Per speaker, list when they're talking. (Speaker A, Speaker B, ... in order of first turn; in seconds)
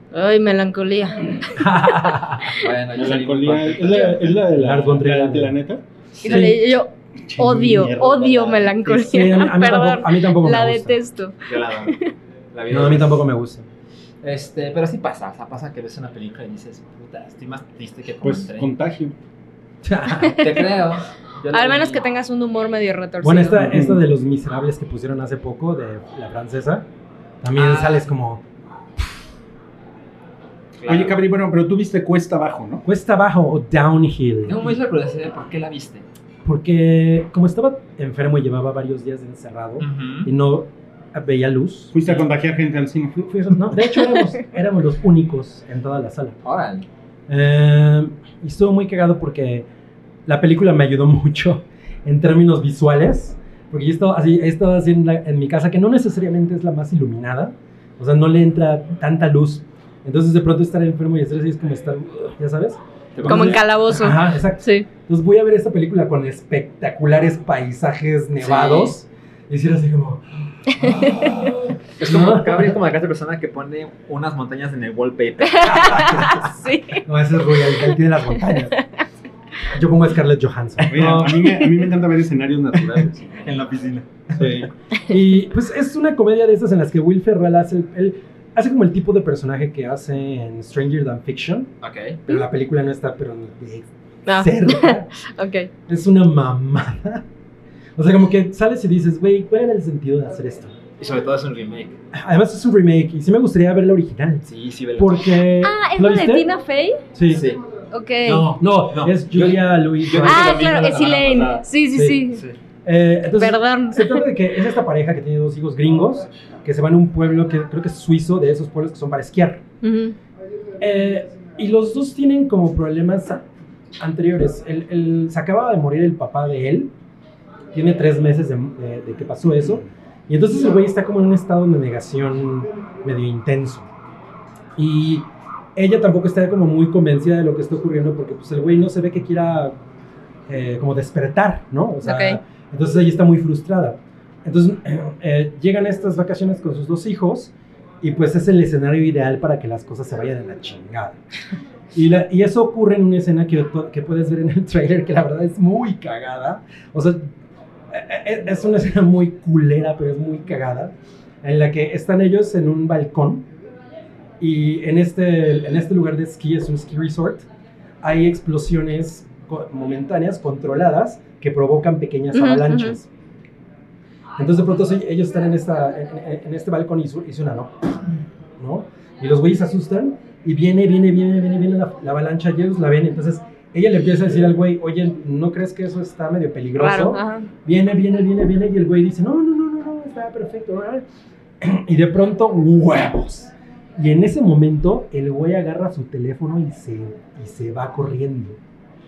Speaker A: 0.1-1.6, 6.2-12.1, 20.2-20.5, 21.5-23.7, 63.2-64.9, 75.4-77.0, 77.6-78.0, 94.2-95.7, 105.6-107.0, 107.9-108.5, 110.2-112.4, 113.4-114.2, 119.8-120.2, 142.0-142.4, 172.3-173.0, 186.8-187.5
Speaker B: 1.6-2.6, 4.5-5.6, 6.2-6.6, 8.8-10.9, 12.7-13.7, 19.8-20.6, 23.2-26.9, 27.4-28.4, 32.8-34.7, 36.4-42.0, 43.3-46.4, 47.3-49.6, 50.2-72.8, 75.9-76.5, 77.0-78.8, 79.7-81.6, 85.1-91.7, 92.3-95.1, 95.9-97.2, 98.0-100.7, 102.1-106.5, 107.1-107.4, 108.6-111.0, 111.9-112.2, 112.8-119.6, 120.8-123.5, 124.0-126.9, 127.7-133.8, 134.8-139.8, 140.5-151.2, 151.9-157.3, 157.9-163.5, 164.4-167.5, 168.0-173.1, 174.4-191.0, 191.6-198.6
Speaker C: 2.5-4.4, 6.2-6.4, 11.4-11.9, 12.5-13.2, 14.2-18.7, 20.2-22.1, 27.5-28.1, 30.8-31.2, 34.5-36.0, 39.8-40.3, 46.4-46.9, 63.1-63.6, 68.4-69.0, 72.0-76.3, 83.4-84.0, 91.8-92.2, 101.0-102.0, 104.5-105.4, 107.3-107.6, 108.2-111.7, 112.3-112.6
Speaker D: 3.0-5.8, 7.2-8.9, 18.2-19.1, 23.5-24.1, 30.9-32.8, 41.9-43.8, 80.9-83.4, 84.4-84.7